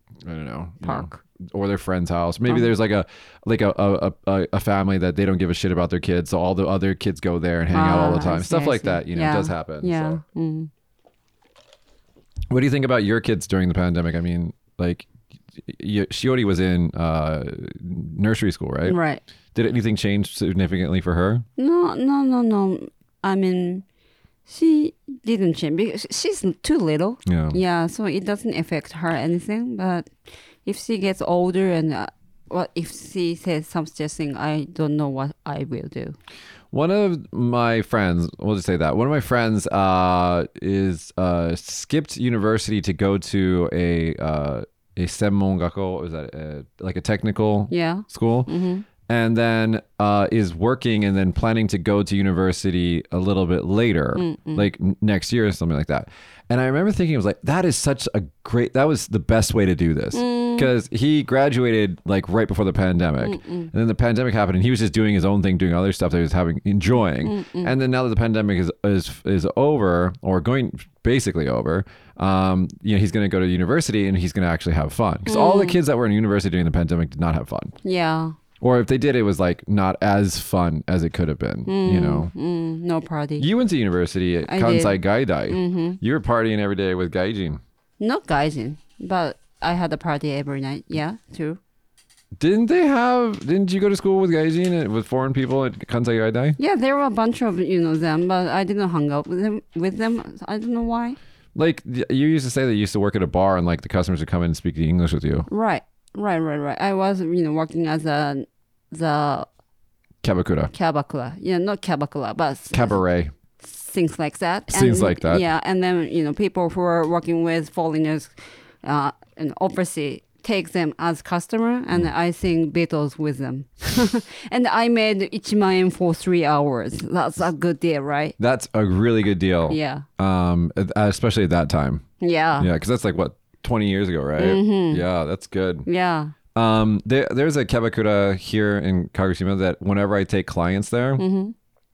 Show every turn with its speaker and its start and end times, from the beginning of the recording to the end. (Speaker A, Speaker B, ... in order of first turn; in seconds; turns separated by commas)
Speaker A: 0.2-10.2, Speaker B: 0.8-1.1, Speaker B: 7.7-10.7, Speaker A: 12.5-15.1, Speaker A: 15.7-19.0, Speaker B: 18.9-19.2, Speaker A: 19.5-21.5, Speaker B: 21.6-23.9, Speaker B: 24.5-30.1, Speaker A: 27.3-27.6, Speaker B: 30.6-36.2, Speaker A: 36.7-48.5, Speaker B: 47.7-48.9, Speaker A: 49.1-77.7, Speaker B: 54.2-54.7, Speaker B: 60.1-60.7, Speaker B: 63.2-63.7, Speaker B: 67.2-67.7, Speaker B: 75.3-75.8, Speaker B: 77.8-78.4, Speaker A: 78.6-82.3, Speaker B: 81.7-83.5, Speaker A: 83.4-87.6, Speaker B: 84.5-86.0, Speaker B: 88.0-91.6, Speaker A: 92.4-96.6, Speaker B: 96.6-101.2, Speaker A: 101.5-105.5, Speaker B: 105.5-109.5, Speaker A: 110.2-110.7, Speaker B: 110.7-113.0, Speaker A: 112.7-113.3, Speaker B: 113.6-128.4, Speaker A: 114.7-115.4, Speaker A: 128.4-132.0, Speaker B: 129.7-130.1, Speaker B: 132.2-132.7, Speaker A: 132.6-135.9, Speaker B: 134.4-135.0, Speaker B: 135.9-136.3, Speaker A: 136.6-141.2, Speaker B: 141.2-141.5